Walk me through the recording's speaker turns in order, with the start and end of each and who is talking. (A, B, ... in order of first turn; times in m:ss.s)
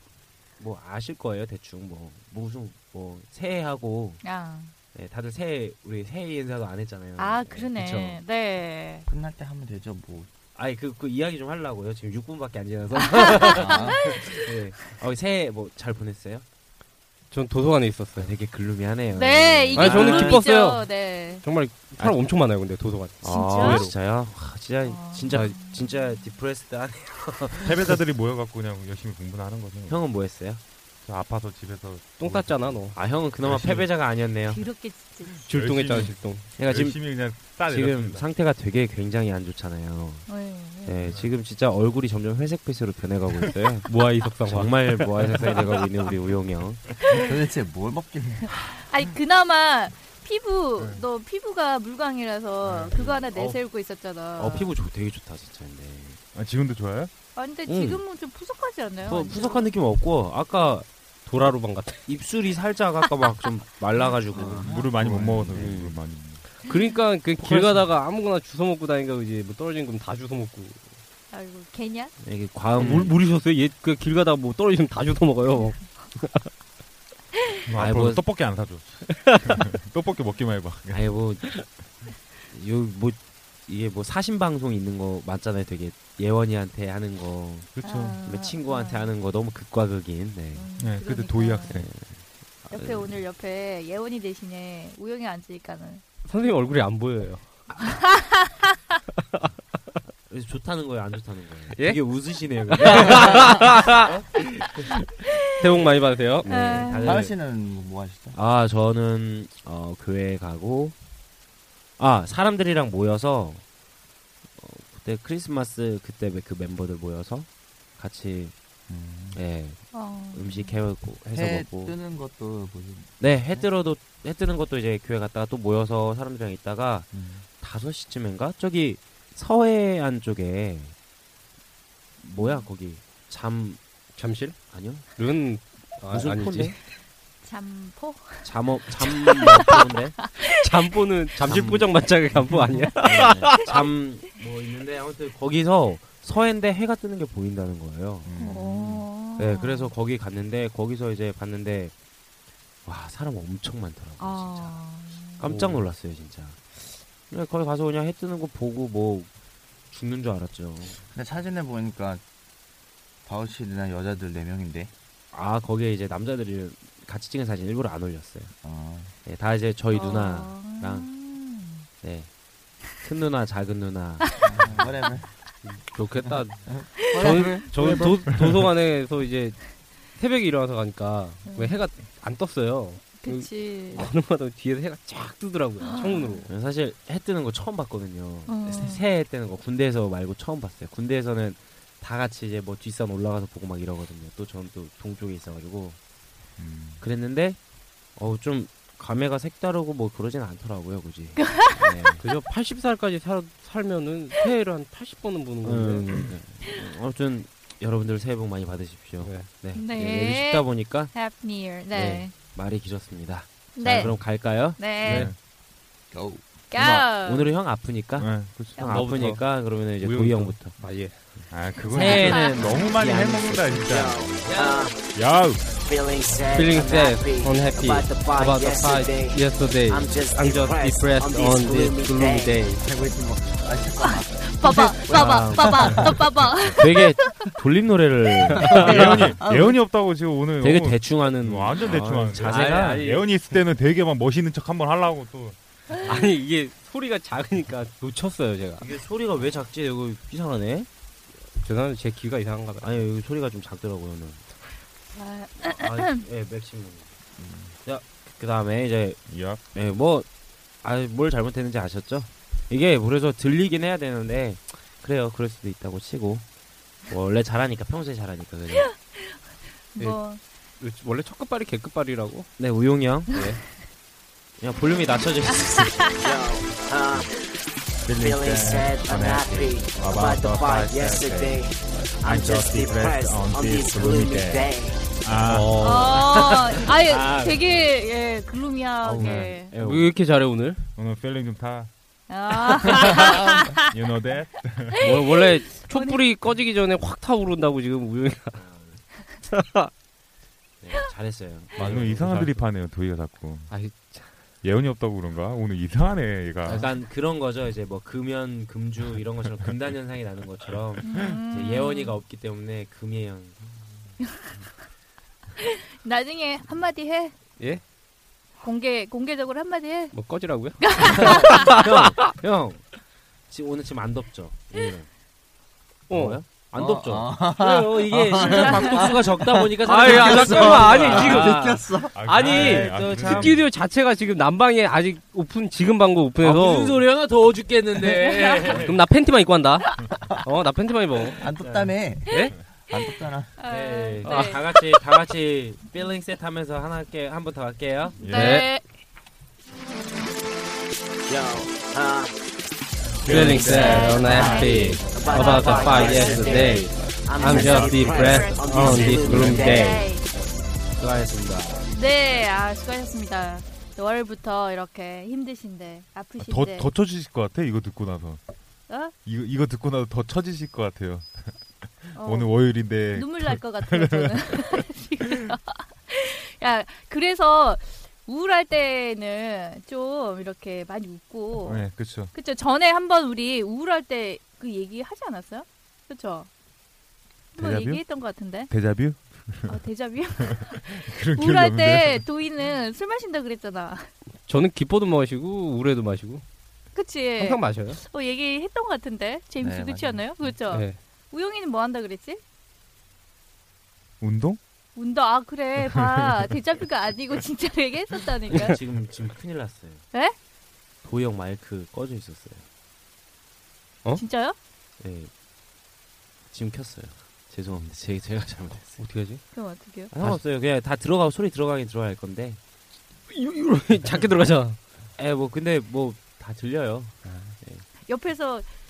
0:00.6-0:04.2 A
0:04.2-0:04.7 B
0:04.9-0:08.2 A
0:07.2-0:09.1 B
0:09.1-0:10.3 C
0:10.6-0:16.4 A
0:13.1-0:14.3 B
0:13.4-0:14.1 C
0:17.3-0:18.3 D
0:18.2-0:20.5 A
0:19.1-0:21.4 B
0:19.8-0:23.9 D
0:22.0-0:22.2 A
0:23.2-0:27.9 A
0:23.2-0:23.9 B
0:24.8-0:25.9 B
0:25.3-0:25.7 D
0:27.6-0:30.1 E
0:29.9-0:30.6 A
0:31.0-0:33.9 E
0:32.2-0:33.0 D
0:32.9-0:34.6 A
0:34.5-0:35.4 B
0:35.3-0:38.3 E
0:35.5-0:36.5 D
0:36.6-0:40.3 A
0:40.3-0:41.1 B
0:40.8-0:43.9 A
0:43.8-0:46.1 D
0:44.4-0:46.8 A
0:47.2-0:48.5 C
0:48.7-0:54.7 B
0:50.8-0:51.0 E
0:52.6-0:53.0 E
0:52.9-0:53.7 A
0:54.3-0:56.2 A
0:56.3-0:57.1 E
0:57.4-0:59.7 B
0:57.7-0:58.0 A
0:59.0-1:00.9 A
1:01.3-1:02.0 D
1:02.1-1:06.0 A
1:04.3-1:05.7 C
1:04.6-1:06.6 E
1:06.6-1:10.8 D
1:11.3-1:12.1 B
1:12.2-1:13.2 A
1:12.8-1:16.5 D
1:17.7-1:21.3 E
1:17.8-1:18.3 A
1:19.0-1:19.7 D
1:20.9-1:21.7 A
1:22.4-1:27.7 A
1:27.8-1:28.2 E
1:27.8-1:29.1 B
1:28.2-1:30.7 A
1:30.5-1:31.8 B
1:30.8-1:31.9 E
1:31.7-1:33.2 A
1:32.7-1:36.0 B
1:36.2-1:38.1 D
1:40.3-1:44.4 A
1:41.7-1:42.0 D
1:42.7-1:44.1 D
1:45.6-1:47.0 D
1:46.4-1:47.2 B
1:46.8-1:47.4 A
1:47.0-1:48.4 C
1:48.3-1:51.0 A
1:52.0-1:53.6 A
1:54.6-1:58.5 A
1:58.9-1:59.4 C
1:59.3-2:02.0 A
1:59.9-2:00.7 B
2:01.3-2:03.7 C
2:03.2-2:07.1 A
2:07.1-2:07.4 C
2:07.6-2:10.9 A
2:12.2-2:13.8 A
2:12.4-2:12.7 B
2:14.2-2:14.6 D
2:14.7-2:15.3 A
2:15.2-2:16.8 D
2:16.1-2:16.8 A
2:17.4-2:18.5 B
2:18.4-2:20.3 A
2:19.1-2:20.5 B
2:20.4-2:23.7 D
2:21.4-2:22.0 A
2:23.0-2:28.6 A
2:28.2-2:29.0 C
2:28.4-2:29.9 B
2:29.4-2:31.9 A
2:32.8-2:34.8 A
2:34.2-2:35.5 B
2:35.4-2:39.3 A
2:39.9-2:41.0 A
2:41.1-2:42.2 C
2:43.3-2:44.9 C
2:45.3-2:48.5 A
2:48.6-2:49.1 C
2:49.2-2:51.1 A
2:49.9-2:51.9 B
2:52.0-2:52.3 A
2:53.0-2:54.3 A
2:54.4-2:55.3 C
2:55.6-3:06.5 D
2:56.7-2:58.3 C
2:58.4-2:58.6 E
3:01.5-3:01.8 B
3:03.2-3:04.1 B
3:05.8-3:06.4 B
3:06.5-3:16.0 A
3:08.5-3:09.0 B
3:16.6-3:17.0 C
3:17.0-3:17.6 A
3:18.2-3:22.2 A
3:22.2-3:26.3 D
3:25.6-3:31.2 A
3:29.2-3:29.6 D
3:29.7-3:32.3 B
3:31.9-3:35.3 A
3:33.8-3:35.3 B
3:35.1-3:35.4 E
3:36.1-3:36.4 C
3:36.7-3:37.5 B
3:36.8-3:37.1 E
3:37.1-3:40.8 A
3:38.2-3:38.9 E
3:38.8-3:41.4 D
3:41.5-3:44.5 E
3:41.7-3:43.8 A
3:41.8-3:42.8 B
3:43.9-3:45.0 F
3:44.4-3:44.8 A
3:45.1-3:45.6 E
3:45.8-3:52.6 F
3:46.5-3:52.8 D
3:52.8-3:56.1 C
3:54.0-3:57.4 B
3:55.1-3:59.1 A
3:58.5-3:59.3 D
3:58.7-3:59.8 C
3:58.7-4:06.1 E
4:00.6-4:03.2 A
4:02.4-4:03.3 D
4:05.9-4:08.8 D
4:08.8-4:10.9 A
4:11.5-4:13.0 D
4:12.8-4:14.5 A
4:15.1-4:16.2 B
4:15.7-4:17.1 A
4:17.4-4:17.8 C
4:17.8-4:19.2 A
4:19.3-4:19.6 E
4:19.7-4:20.3 A
4:20.8-4:26.5 A
4:27.1-4:28.9 A
4:28.8-4:30.4 B
4:30.0-4:32.5 D
4:32.6-4:33.3 A
4:33.3-4:33.8 D
4:34.6-4:36.2 A
4:35.8-4:36.3 B
4:36.2-4:37.3 F
4:38.0-4:41.7 E
4:38.2-4:45.0 F
4:42.2-4:46.0 E
4:45.4-4:46.3 D
4:45.8-4:49.7 B
4:46.1-4:47.9 A
4:49.0-4:50.1 A
4:49.2-4:50.8 D
4:51.0-4:51.9 E
4:52.3-4:53.9 B
4:53.2-4:55.1 E
4:55.0-4:58.6 D
4:55.1-4:56.2 B
4:58.5-4:59.1 A
4:59.5-4:59.9 D
5:00.8-5:02.3 A
5:01.8-5:02.6 D
5:01.8-5:03.7 E
5:03.7-5:04.3 D
5:04.6-5:06.9 E
5:06.6-5:13.8 A
5:11.0-5:12.2 B
5:11.1-5:11.6 E
5:15.6-5:17.3 B
5:18.6-5:20.2 B
5:20.1-5:22.3 D
5:20.8-5:21.7 B
5:21.0-5:25.1 A
5:26.1-5:26.4 D
5:26.1-5:33.6 A
5:26.8-5:32.1 C
5:28.7-5:29.0 B
5:29.8-5:37.1 D
5:32.1-5:33.6 E
5:36.4-5:39.0 A
5:38.1-5:38.8 B
5:38.8-5:41.4 D
5:41.4-5:43.5 C
5:41.6-5:41.9 A
5:43.6-5:44.7 B
5:43.7-5:48.2 A
5:44.2-5:44.6 D
5:48.2-5:48.5 E
5:48.2-5:48.8 B
5:48.3-5:48.7 D
5:51.3-5:52.4 F
5:53.2-5:54.7 E
5:53.3-6:00.0 D
5:53.6-6:00.2 B
5:53.6-6:00.1 F
5:54.7-5:55.0 A
5:57.2-5:58.7 A
5:57.6-5:58.0 E
5:58.6-5:59.1 E
5:59.2-5:59.7 A
6:01.0-6:01.9 A
6:01.9-6:06.9 B
6:06.4-6:08.4 E
6:08.9-6:09.1 B
6:09.2-6:14.7 E
6:12.2-6:26.5 B
6:21.6-6:22.3 E
6:27.6-6:28.7 B
6:27.6-6:29.8 E
6:29.7-6:34.1 B
6:30.4-6:32.3 E
6:34.5-6:36.4 D
6:36.9-6:42.4 B
6:37.4-6:38.0 D
6:39.6-6:40.2 C
6:40.7-6:41.0 D
6:44.2-6:44.6 E
6:45.0-6:48.8 B
6:46.0-6:46.4 E
6:48.5-6:50.1 A
6:51.0-6:52.6 A
6:54.2-6:54.6 B
6:55.0-6:55.3 A
6:56.5-6:59.0 A
6:59.0-6:59.6 D
6:59.5-7:00.1 B
7:00.1-7:02.6 A
7:03.3-7:04.8 D
7:05.2-7:07.8 A
7:07.2-7:07.6 D
7:08.1-7:08.7 B